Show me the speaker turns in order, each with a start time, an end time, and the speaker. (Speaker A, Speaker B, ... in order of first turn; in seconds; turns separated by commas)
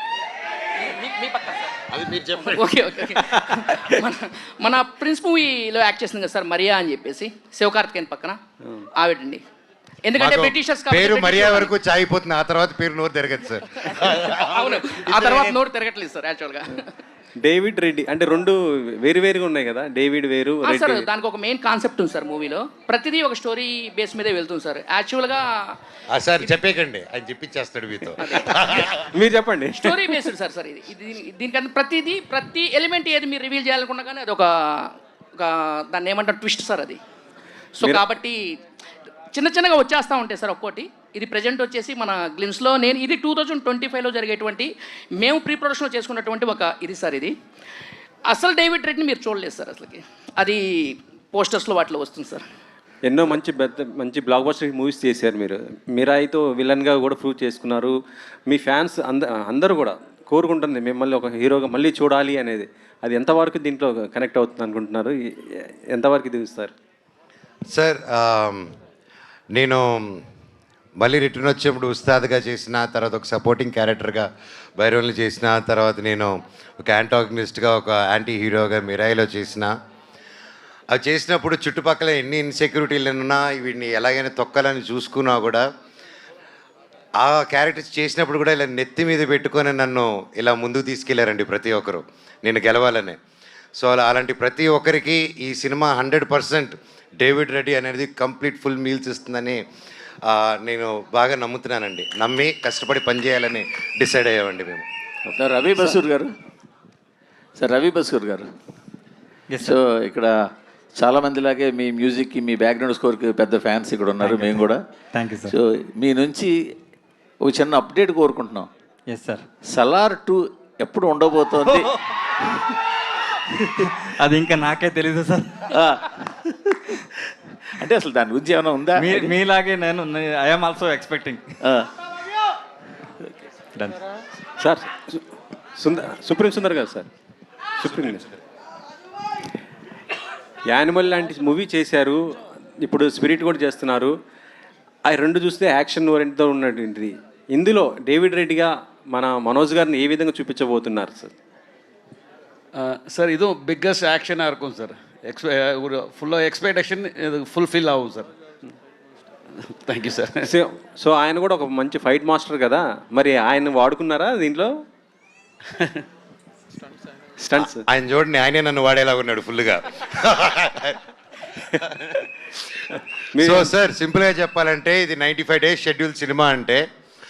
Speaker A: 0.8-1.8, Speaker B: 1.9-2.7, Speaker A: 2.4-8.4, Speaker A: 8.9-9.4, Speaker A: 10.0-11.7, Speaker B: 10.2-15.6, Speaker A: 13.9-16.9, Speaker C: 17.4-21.1, Speaker A: 20.6-25.8, Speaker B: 26.1-28.9, Speaker A: 28.2-28.9, Speaker C: 29.1-30.1, Speaker A: 29.8-37.0, Speaker A: 37.8-38.6, Speaker A: 39.3-47.3, Speaker A: 48.3-52.4, Speaker C: 53.0-66.7, Speaker B: 67.7-68.7, Speaker B: 69.5-70.2, Speaker B: 71.0-79.7, Speaker B: 80.9-85.7, Speaker B: 87.2-93.2, Speaker B: 93.8-99.6, Speaker B: 100.2-104.8, Speaker D: 105.2-106.3, Speaker D: 107.6-108.5, Speaker E: 109.5-109.7, Speaker D: 109.6-110.4, Speaker D: 110.9-114.8, Speaker E: 114.2-115.5, Speaker D: 115.4-116.7, Speaker D: 117.4-118.7, Speaker E: 119.1-119.4, Speaker D: 119.7-121.9, Speaker E: 123.8-125.7, Speaker D: 125.7-127.0, Speaker D: 127.8-129.4, Speaker E: 128.9-131.6, Speaker D: 131.6-131.9, Speaker E: 133.7-134.0, Speaker C: 134.6-135.2, Speaker C: 135.8-137.1, Speaker C: 137.8-138.3, Speaker C: 140.7-144.2, Speaker C: 145.1-151.3, Speaker F: 152.8-158.3, Speaker F: 159.6-160.5, Speaker C: 160.4-164.7, Speaker C: 167.4-167.8, Speaker B: 167.6-171.0, Speaker B: 171.8-172.1, Speaker C: 173.3-173.7, Speaker B: 173.4-176.8